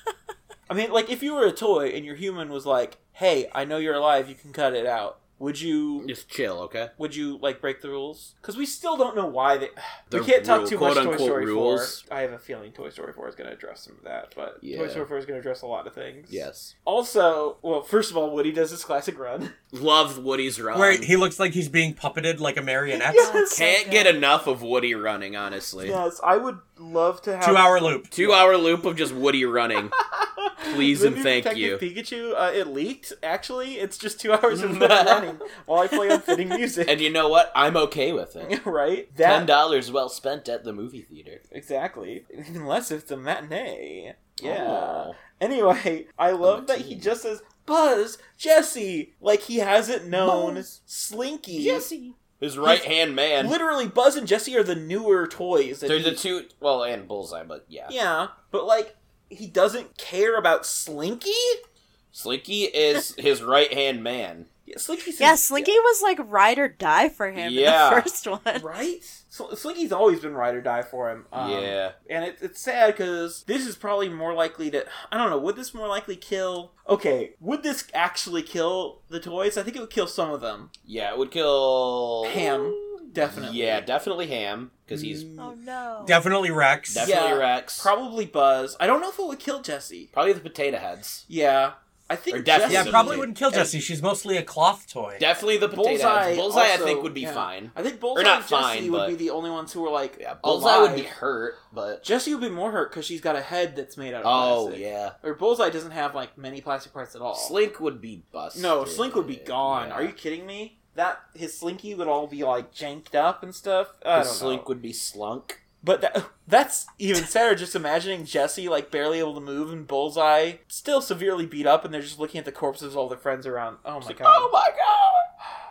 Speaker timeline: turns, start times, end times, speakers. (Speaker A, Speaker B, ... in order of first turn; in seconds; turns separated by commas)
Speaker A: 0.7-6.1, Speaker B: 6.0-6.9, Speaker A: 7.0-19.6, Speaker B: 10.1-12.0, Speaker B: 14.6-15.1, Speaker B: 16.3-16.7, Speaker B: 19.7-21.1, Speaker C: 20.7-23.4, Speaker A: 22.9-23.7, Speaker D: 23.2-24.1, Speaker B: 23.5-26.0, Speaker A: 25.8-28.5, Speaker C: 27.4-28.1, Speaker B: 28.1-30.0, Speaker A: 30.2-37.1, Speaker B: 30.6-31.8, Speaker B: 34.5-35.4, Speaker B: 36.9-38.6, Speaker A: 38.4-39.5, Speaker B: 39.2-41.4, Speaker A: 41.5-51.9, Speaker B: 44.4-45.2, Speaker B: 46.4-47.1, Speaker B: 50.1-50.8, Speaker B: 51.5-53.6, Speaker A: 52.6-56.2, Speaker B: 55.9-58.0, Speaker A: 57.9-61.6, Speaker B: 62.1-64.5, Speaker A: 64.7-65.7, Speaker D: 65.2-68.7, Speaker B: 67.4-68.1, Speaker A: 68.5-80.7, Speaker B: 71.3-72.0, Speaker B: 80.9-85.3, Speaker A: 82.2-83.9, Speaker A: 84.9-85.5, Speaker D: 85.4-86.2, Speaker C: 86.0-87.1, Speaker B: 86.9-87.9, Speaker A: 87.0-90.1, Speaker B: 90.1-91.2, Speaker A: 91.3-93.8, Speaker B: 92.3-93.3, Speaker C: 92.7-95.2, Speaker B: 95.2-99.2, Speaker A: 95.6-101.2, Speaker B: 100.2-102.0, Speaker A: 102.0-107.6, Speaker B: 104.2-105.2, Speaker B: 107.3-110.1, Speaker A: 108.5-114.7, Speaker B: 114.1-115.6, Speaker A: 115.8-124.5, Speaker B: 124.0-125.3